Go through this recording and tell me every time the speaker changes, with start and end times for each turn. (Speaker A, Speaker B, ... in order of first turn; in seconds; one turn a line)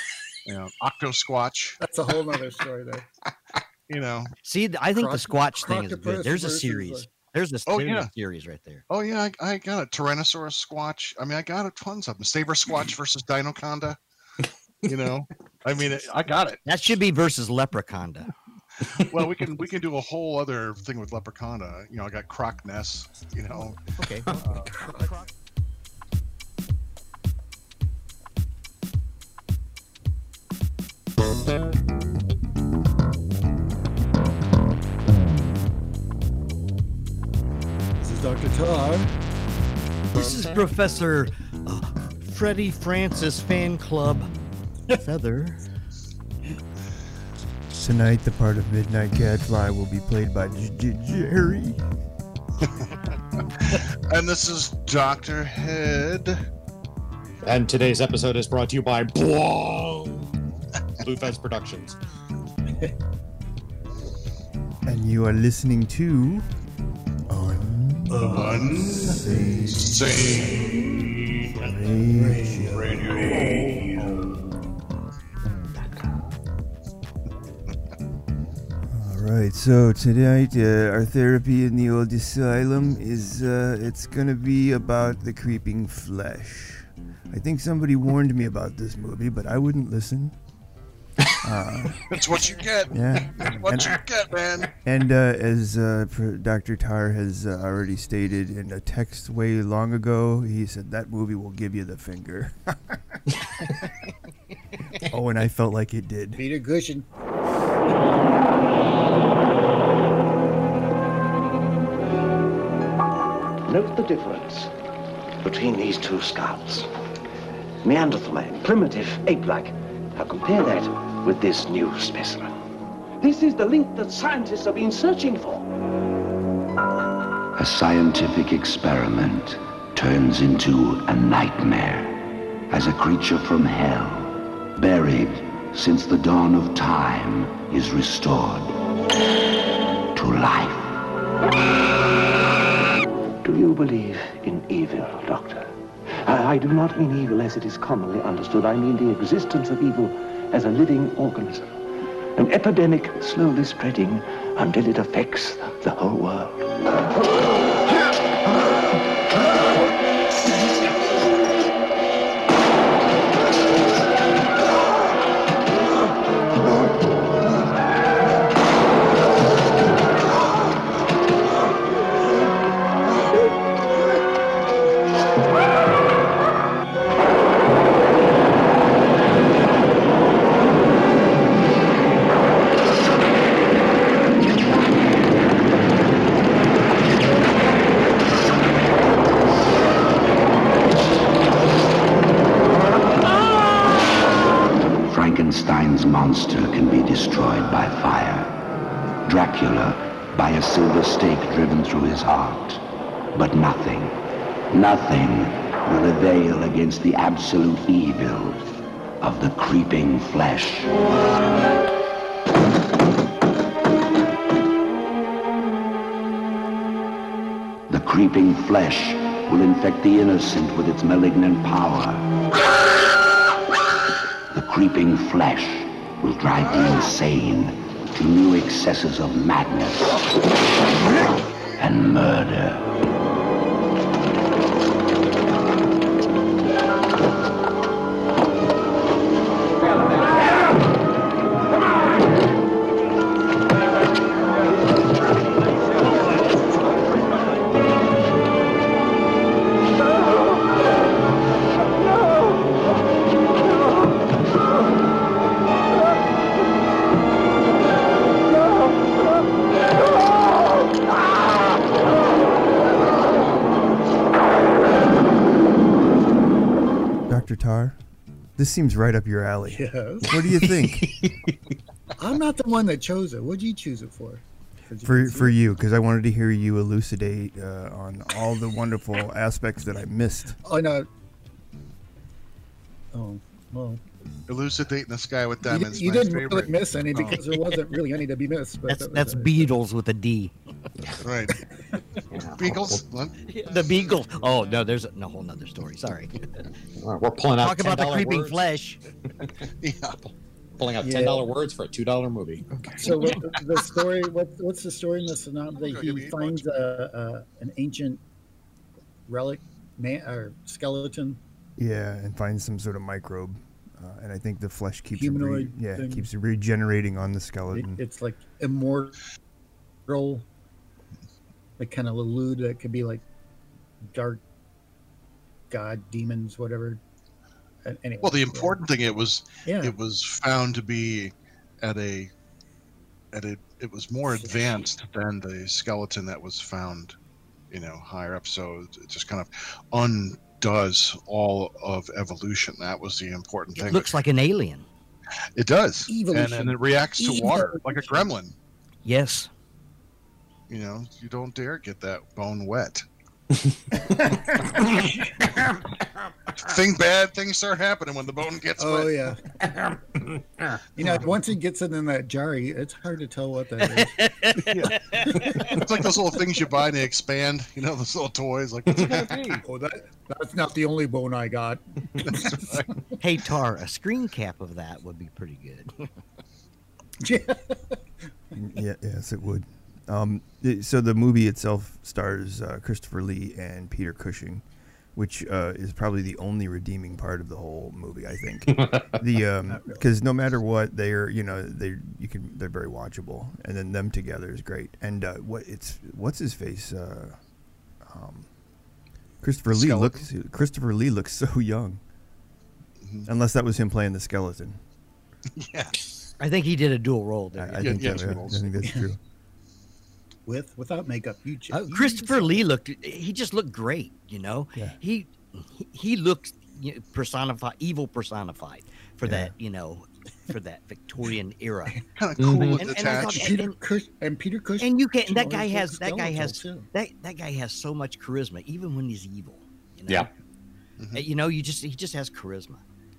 Speaker A: 0.5-1.8
Speaker B: 1.8-3.1
Speaker A: 3.9-4.3
Speaker C: 4.4-8.8
Speaker B: 5.0-7.1
Speaker A: 7.7-8.1
Speaker A: 8.9-14.0
Speaker A: 14.9-16.6
Speaker C: 16.7-18.3
Speaker A: 18.9-23.8
Speaker C: 23.9-25.3
Speaker A: 24.4-24.7
Speaker B: 38.0-39.1
Speaker C: 40.1-44.3
Speaker C: 44.9-45.6
Speaker D: 47.7-51.8
Speaker A: 52.6-56.4
Speaker E: 57.4-60.3
Speaker E: 61.0-62.0
Speaker D: 64.9-66.5
Speaker D: 67.3-71.0
Speaker B: 68.1-68.7
Speaker A: 68.3-71.5
Speaker D: 71.5-73.5
Speaker B: 72.1-74.4
Speaker A: 72.7-74.3
Speaker F: 75.8-76.2
Speaker D: 78.8-90.4
Speaker D: 91.4-92.3
Speaker A: 92.1-94.7
Speaker D: 92.9-94.0
Speaker D: 94.8-103.8
Speaker E: 103.4-103.7
Speaker D: 105.1-106.5
Speaker B: 106.3-107.1
Speaker F: 113.7-114.7
Speaker F: 115.4-116.9
Speaker F: 117.8-122.5
Speaker F: 123.2-125.7
Speaker G: 127.6-138.8
Speaker G: 140.2-141.0
Speaker F: 143.4-151.8
Speaker F: 152.4-157.1
Speaker G: 195.1-198.5
Speaker G: 199.2-202.8
Speaker G: 203.3-204.2
Speaker G: 204.7-208.6
Speaker G: 209.2-210.9
Speaker G: 217.9-222.3
Speaker G: 224.5-230.3
Speaker G: 231.8-232.9
Speaker D: 267.3-268.0
Speaker D: 268.6-271.2
Speaker B: 269.7-270.3
Speaker E: 270.3-271.8
Speaker B: 272.2-275.6
Speaker D: 275.0-280.6
Speaker B: 280.6-281.1
Speaker B: 283.1-284.0
Speaker A: 284.5-286.8
Speaker B: 285.7-289.7
Speaker C: 287.3-287.6
Speaker C: 288.9-290.5
Speaker A: 291.2-291.6
Speaker E: 292.3-293.0
Speaker A: 292.6-293.4
Speaker C: 293.5-296.7
Speaker E: 297.0-298.6
Speaker C: 297.6-299.0
Speaker A: 299.8-300.3
Speaker E: 300.8-303.3
Speaker B: 301.0-301.5
Speaker B: 303.0-308.2
Speaker A: 305.8-306.6
Speaker B: 309.3-311.4
Speaker D: 311.8-318.0
Speaker B: 315.2-316.3
Speaker B: 317.7-319.2
Speaker B: 320.1-320.5
Speaker B: 321.8-323.2
Speaker B: 324.1-324.4
Speaker B: 325.7-327.0
Speaker B: 327.8-328.8
Speaker A: 328.2-332.3
Speaker B: 329.7-330.0
Speaker A: 333.3-337.1
Speaker B: 334.3-334.9
Speaker A: 337.7-344.1
Speaker C: 343.8-344.9
Speaker A: 345.6-348.6
Speaker B: 346.1-348.2
Speaker C: 349.0-349.5
Speaker A: 350.7-353.0
Speaker B: 354.9-355.4
Speaker A: 356.6-359.3
Speaker B: 358.8-359.5
Speaker E: 359.6-360.8
Speaker B: 360.9-364.5
Speaker C: 363.9-365.8
Speaker A: 364.6-369.6
Speaker B: 365.1-365.8
Speaker E: 368.9-369.4
Speaker B: 369.6-373.0
Speaker A: 372.2-372.9
Speaker C: 373.2-376.1
Speaker B: 377.2-378.0
Speaker D: 378.6-397.4
Speaker E: 388.7-389.1
Speaker B: 389.7-390.0
Speaker D: 398.0-398.5
Speaker D: 399.4-402.0
Speaker A: 399.7-400.3
Speaker A: 403.0-403.3
Speaker D: 403.3-404.8
Speaker A: 405.6-406.0
Speaker C: 406.4-408.1
Speaker D: 407.6-409.2
Speaker A: 407.8-408.8
Speaker B: 410.5-412.6
Speaker C: 411.7-422.0
Speaker D: 419.2-419.5
Speaker A: 422.2-423.5
Speaker E: 422.4-422.9
Speaker C: 422.8-423.8
Speaker B: 423.0-426.9
Speaker C: 424.8-430.3
Speaker A: 431.0-431.2
Speaker C: 431.1-432.8